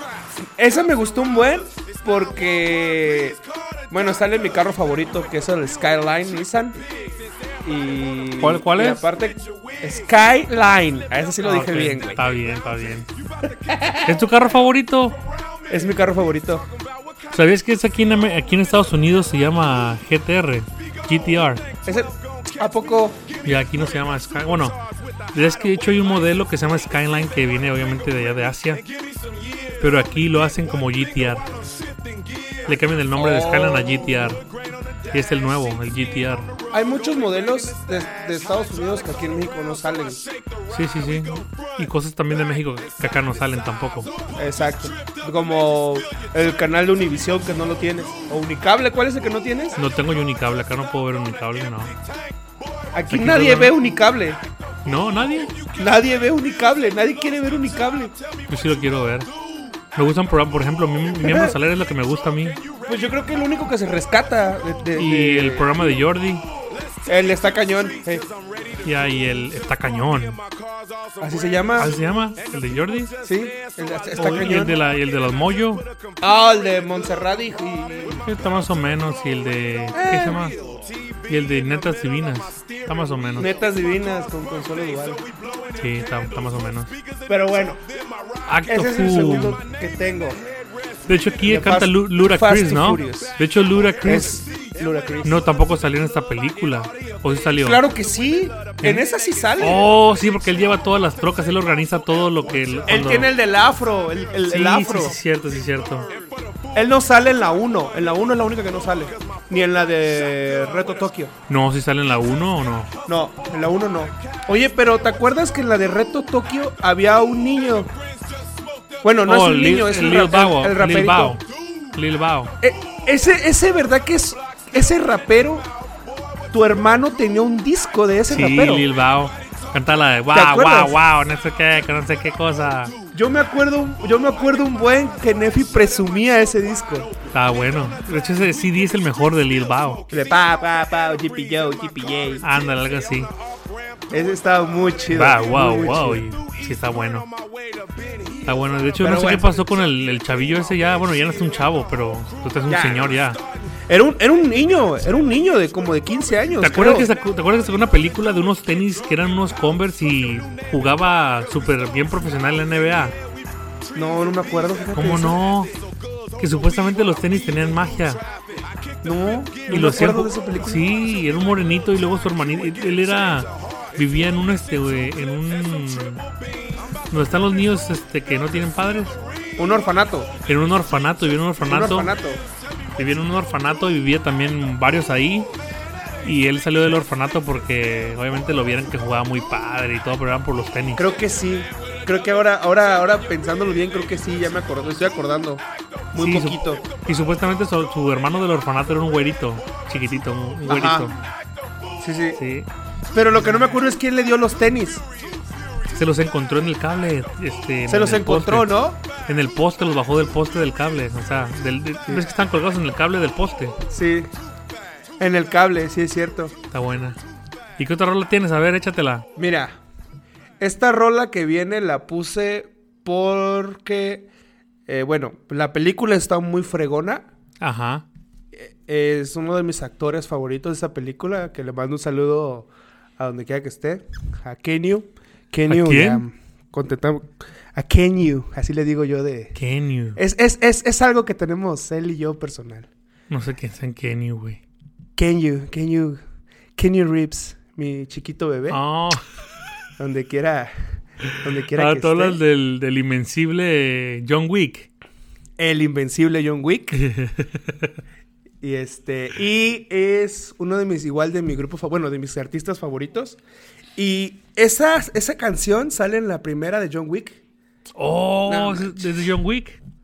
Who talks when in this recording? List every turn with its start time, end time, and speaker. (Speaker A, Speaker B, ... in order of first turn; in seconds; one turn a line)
Speaker A: 0.4-6.8
Speaker A: 7.6-12.3
Speaker B: 8.4-9.1
Speaker B: 11.4-13.1
Speaker A: 13.5-14.1
Speaker B: 14.0-15.2
Speaker A: 15.7-16.7
Speaker B: 17.3-21.6
Speaker A: 21.9-23.2
Speaker B: 23.4-24.8
Speaker B: 25.3-28.8
Speaker B: 29.8-31.5
Speaker B: 32.7-34.4
Speaker A: 33.1-34.1
Speaker B: 35.1-36.5
Speaker A: 36.7-40.2
Speaker B: 40.7-44.1
Speaker A: 44.4-49.8
Speaker B: 49.8-51.9
Speaker A: 52.9-54.4
Speaker B: 53.1-53.8
Speaker B: 54.9-55.5
Speaker A: 55.7-58.1
Speaker B: 58.5-59.3
Speaker B: 60.0-62.6
Speaker A: 61.2-61.6
Speaker A: 62.9-66.0
Speaker B: 65.0-66.4
Speaker A: 67.1-68.3
Speaker B: 68.8-70.4
Speaker A: 71.2-71.9
Speaker B: 71.8-73.1
Speaker A: 73.2-74.8
Speaker B: 74.2-75.8
Speaker A: 76.2-78.2
Speaker B: 78.2-80.6
Speaker A: 79.9-80.7
Speaker B: 81.3-83.5
Speaker A: 83.4-85.3
Speaker B: 85.7-87.0
Speaker A: 87.3-87.8
Speaker B: 88.5-89.6
Speaker A: 88.7-90.4
Speaker B: 91.1-94.4
Speaker A: 91.4-93.3
Speaker A: 94.0-95.4
Speaker B: 95.2-97.8
Speaker A: 97.6-99.8
Speaker B: 99.6-103.3
Speaker A: 102.9-105.2
Speaker B: 104.5-106.1
Speaker A: 106.7-111.3
Speaker B: 111.5-112.9
Speaker A: 113.1-117.9
Speaker A: 119.0-121.4
Speaker B: 119.2-121.4
Speaker B: 121.9-122.5
Speaker A: 122.6-125.7
Speaker A: 126.5-128.9
Speaker B: 128.3-132.9
Speaker A: 130.3-130.9
Speaker A: 133.1-137.1
Speaker B: 137.3-140.0
Speaker A: 140.1-142.4
Speaker B: 142.4-143.3
Speaker A: 144.1-146.2
Speaker B: 145.1-147.3
Speaker B: 148.4-153.4
Speaker A: 149.0-149.6
Speaker A: 152.7-153.2
Speaker A: 153.9-157.1
Speaker B: 156.6-163.2
Speaker A: 163.9-165.4
Speaker B: 164.9-165.7
Speaker B: 166.4-168.2
Speaker A: 169.0-170.9
Speaker B: 169.7-176.2
Speaker B: 177.1-179.2
Speaker A: 179.6-180.3
Speaker B: 180.5-182.1
Speaker A: 181.7-182.4
Speaker B: 183.0-185.5
Speaker B: 186.2-191.1
Speaker A: 191.0-196.8
Speaker B: 196.2-201.2
Speaker A: 200.7-201.1
Speaker A: 202.0-202.4
Speaker B: 202.3-202.7
Speaker A: 203.1-205.0
Speaker B: 205.9-208.7
Speaker A: 207.9-209.0
Speaker B: 209.3-213.8
Speaker A: 213.9-214.3
Speaker A: 215.2-216.6
Speaker B: 216.7-217.2
Speaker B: 217.8-219.3
Speaker A: 219.4-219.8
Speaker A: 220.6-224.3
Speaker A: 224.9-227.3
Speaker B: 227.6-228.1
Speaker A: 228.5-239.6
Speaker B: 235.7-236.3
Speaker B: 239.6-240.2
Speaker A: 240.2-242.9
Speaker B: 243.3-244.6
Speaker A: 245.2-246.2
Speaker A: 246.8-248.8
Speaker B: 248.7-249.5
Speaker A: 250.0-250.7
Speaker A: 251.3-252.4
Speaker B: 251.7-254.9
Speaker A: 255.6-257.0
Speaker B: 256.9-258.0
Speaker A: 258.6-263.4
Speaker A: 264.0-267.4
Speaker B: 268.0-269.8
Speaker A: 268.5-269.1